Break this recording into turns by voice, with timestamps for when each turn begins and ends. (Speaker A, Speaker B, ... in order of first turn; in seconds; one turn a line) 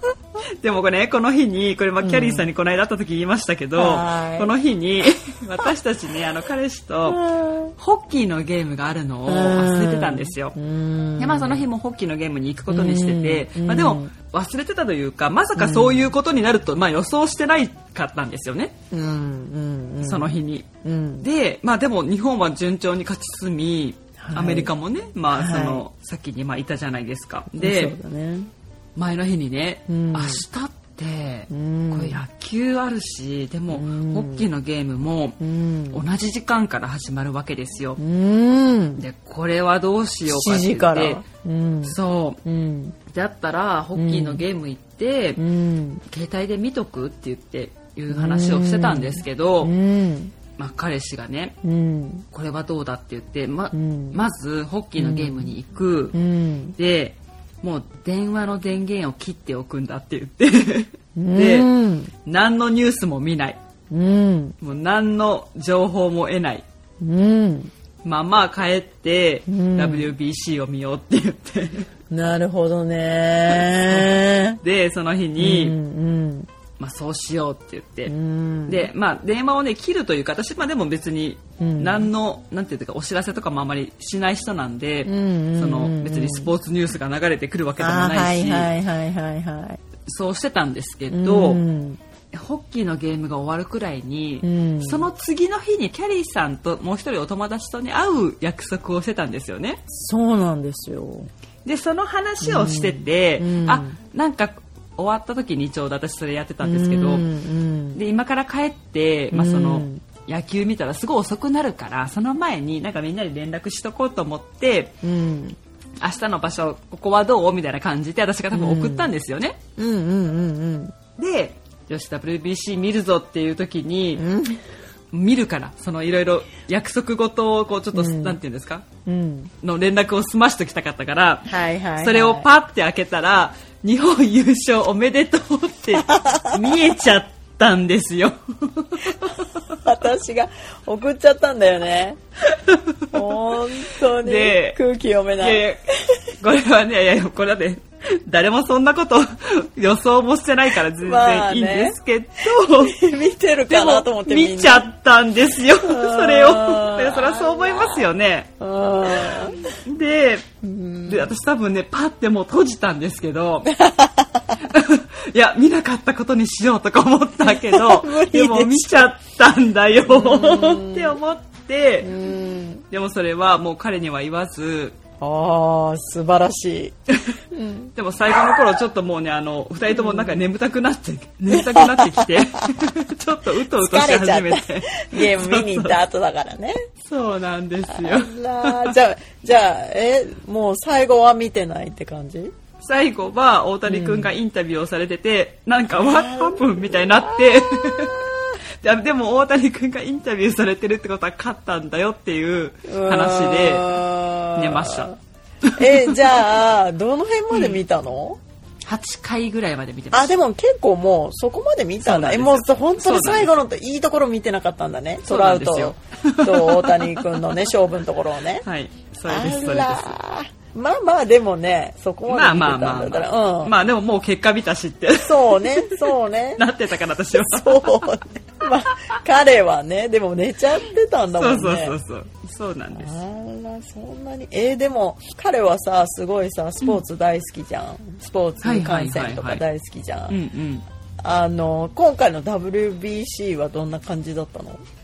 Speaker A: 0.6-7.2
Speaker B: 2.0-2.5
Speaker B: 3.8-4.5
Speaker B: 7.1-7.7
Speaker A: 7.8-10.6
Speaker B: 9.2-11.7
Speaker A: 11.2-18.7
Speaker B: 12.7-14.1
Speaker B: 15.6-16.1
Speaker B: 18.9-21.3
Speaker A: 20.0-20.7
Speaker A: 21.2-27.9
Speaker B: 24.2-24.7
Speaker B: 25.3-25.8
Speaker B: 27.5-28.5
Speaker A: 28.9-35.4
Speaker B: 29.9-30.4
Speaker B: 31.5-32.2
Speaker B: 33.7-34.5
Speaker B: 35.4-36.0
Speaker A: 35.9-38.0
Speaker B: 38.0-39.0
Speaker A: 39.0-41.2
Speaker B: 40.2-43.0
Speaker A: 41.8-42.4
Speaker A: 43.1-45.4
Speaker B: 43.9-44.4
Speaker B: 45.4-46.0
Speaker A: 46.1-49.7
Speaker B: 48.1-50.3
Speaker A: 50.6-51.6
Speaker B: 51.6-52.2
Speaker A: 52.3-56.2
Speaker B: 53.7-54.2
Speaker B: 55.0-55.5
Speaker B: 56.1-56.8
Speaker A: 56.8-61.7
Speaker B: 61.1-62.1
Speaker A: 62.2-63.6
Speaker B: 63.9-64.6
Speaker A: 64.6-66.6
Speaker B: 67.0-67.7
Speaker A: 68.0-71.9
Speaker B: 69.5-70.1
Speaker B: 72.1-74.6
Speaker A: 73.5-75.8
Speaker B: 75.4-76.5
Speaker A: 76.8-78.1
Speaker B: 78.1-78.9
Speaker A: 78.7-88.7
Speaker B: 81.6-82.1
Speaker B: 85.0-86.5
Speaker B: 87.8-89.8
Speaker A: 90.0-91.6
Speaker B: 91.1-92.0
Speaker A: 92.3-99.8
Speaker B: 94.4-95.1
Speaker B: 99.9-101.3
Speaker A: 101.6-107.3
Speaker B: 102.4-104.0
Speaker B: 106.6-108.0
Speaker A: 107.9-115.0
Speaker B: 109.3-110.0
Speaker B: 115.0-115.6
Speaker A: 116.0-119.6
Speaker B: 118.5-119.1
Speaker B: 119.8-121.0
Speaker A: 121.2-124.2
Speaker B: 124.2-124.6
Speaker A: 125.1-128.9
Speaker B: 127.9-128.4
Speaker B: 129.0-129.5
Speaker A: 129.6-139.8
Speaker B: 131.5-132.5
Speaker B: 136.0-136.6
Speaker B: 139.3-142.2
Speaker A: 142.5-144.8
Speaker B: 143.1-146.2
Speaker A: 145.4-145.8
Speaker A: 146.4-153.0
Speaker B: 151.0-152.0
Speaker B: 152.7-154.8
Speaker A: 153.7-158.5
Speaker B: 155.8-158.1
Speaker B: 158.6-159.7
Speaker A: 159.1-160.5
Speaker B: 160.6-161.3
Speaker A: 161.1-163.7
Speaker B: 163.7-164.6
Speaker A: 164.6-172.1
Speaker B: 167.4-169.0
Speaker B: 170.1-171.2
Speaker B: 172.0-172.8
Speaker A: 172.9-175.0
Speaker B: 175.2-176.9
Speaker B: 177.5-177.9
Speaker A: 177.9-186.0
Speaker B: 179.9-180.4
Speaker B: 181.5-182.6
Speaker B: 183.6-186.8
Speaker A: 187.0-188.9
Speaker B: 187.9-192.5
Speaker A: 192.8-198.2
Speaker B: 193.8-194.3
Speaker B: 195.9-198.6
Speaker A: 198.8-204.0
Speaker B: 202.9-205.2
Speaker A: 204.5-205.1
Speaker A: 205.6-206.3
Speaker B: 205.8-208.4
Speaker A: 207.5-207.8
Speaker A: 208.8-210.3
Speaker B: 210.1-218.7
Speaker A: 212.0-213.5
Speaker A: 215.2-217.5
Speaker A: 218.6-220.2
Speaker B: 219.3-223.7
Speaker A: 222.3-228.1
Speaker B: 225.2-226.7
Speaker B: 227.3-232.0
Speaker A: 228.9-229.2
Speaker A: 231.3-233.2
Speaker B: 232.9-240.3
Speaker A: 238.6-239.6
Speaker A: 240.3-240.8
Speaker B: 241.2-244.8